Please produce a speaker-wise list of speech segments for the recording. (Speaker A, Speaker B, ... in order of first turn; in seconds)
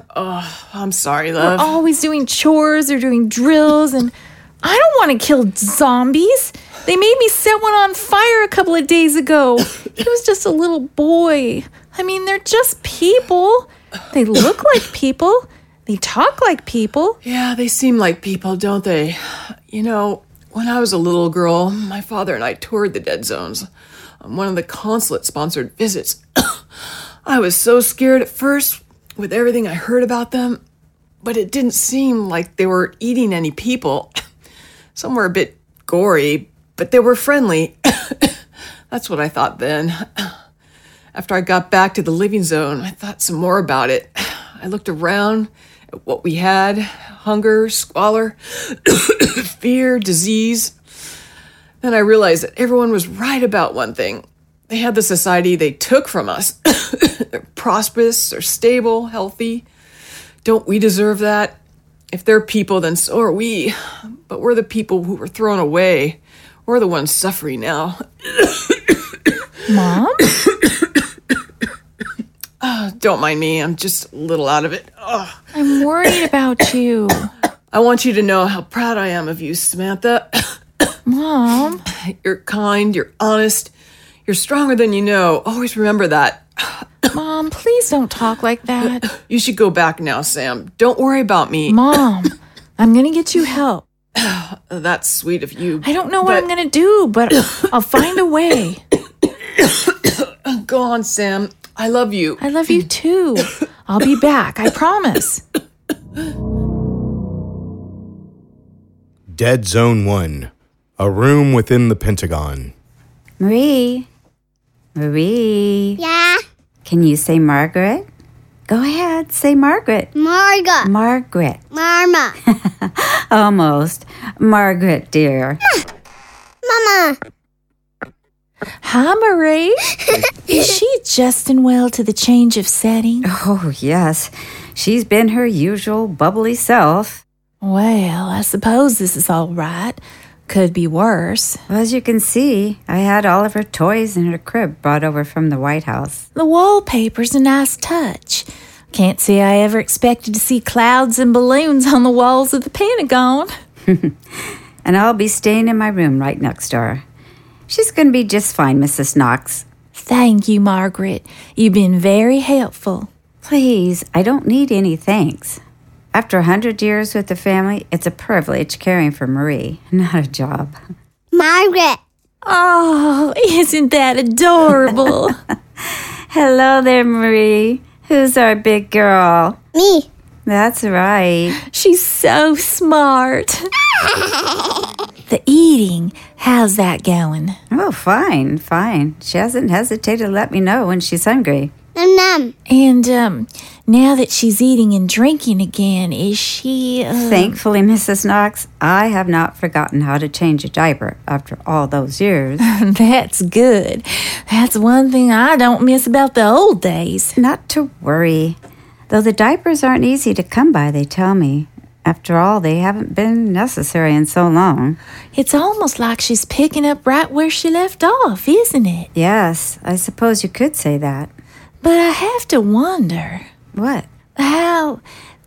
Speaker A: 0.1-1.8, 17.2-23.7, 24.2-26.5, 27.2-30.6, 31.2-34.1, 34.9-38.3, 38.9-40.3, 41.1-50.8, 51.8-59.6, 60.4-61.6, 62.1-68.0, 72.6-75.4, 77.7-80.5, 82.2-83.7, 84.2-86.5, 89.1-91.8, 94.2-96.5, 100.5-102.4
Speaker B: 1.4-17.2, 69.7-70.3, 75.5-77.3, 81.0-81.8, 87.1-89.1, 91.7-93.8, 95.8-98.8, 102.4-105.4, 128.8-133.2, 137.6-141.6, 146.3-153.5, 159.9-163.1, 172.4-175.4, 181.6-183.7, 185.3-187.6, 192.7-197.6, 202.6-207.4, 215.3-219.1, 221.8-223.4, 224.4-225.0
Speaker C: 109.3-112.7
Speaker D: 113.4-114.1, 115.0-116.0, 116.9-118.0, 118.7-120.1, 120.8-121.6, 122.5-125.6, 133.2-137.2, 141.7-146.2, 153.9-154.2, 154.8-157.0, 157.7-159.6, 163.4-165.6, 166.1-170.8, 176.3-179.6, 180.4-181.6, 187.7-191.7, 197.2-202.6, 207.4-208.6, 209.1-215.0, 219.1-221.3, 223.7-224.1
Speaker E: 116.0-116.4, 120.1-120.9, 121.7-122.3, 126.7-127.2, 171.3-172.0, 179.8-180.1, 191.9-192.5